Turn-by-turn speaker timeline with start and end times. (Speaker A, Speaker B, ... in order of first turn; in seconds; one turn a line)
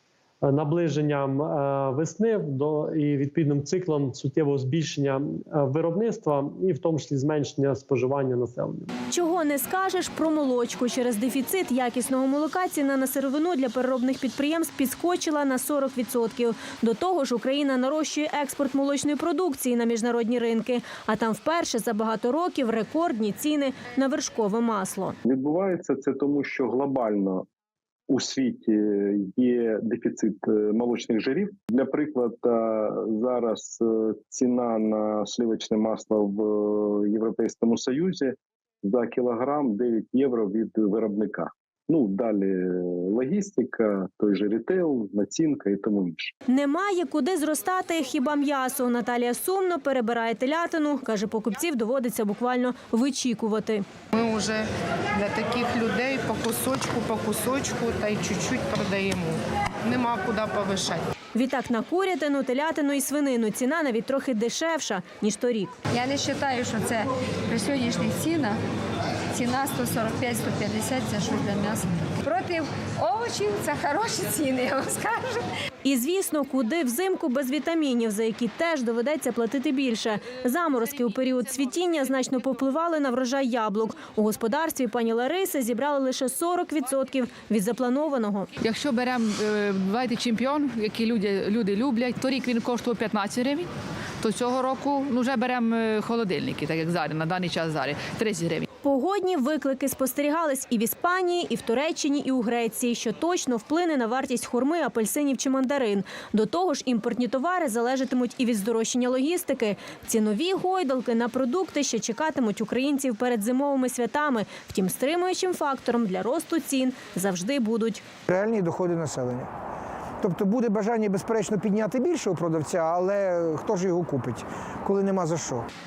Speaker A: 0.4-8.9
Speaker B: 9.1-25.2
Speaker C: 25.2-27.4
Speaker C: 28.1-46.3
Speaker B: 46.5-53.8
Speaker D: 54.1-61.0
Speaker B: 61.3-65.7
Speaker E: 65.9-68.5
Speaker E: 69.3-75.4
Speaker B: 75.8-88.5
Speaker F: 88.6-93.7
Speaker F: 94.2-98.6
Speaker B: 98.8-118.0
Speaker G: 118.3-119.5
Speaker G: 120.2-125.7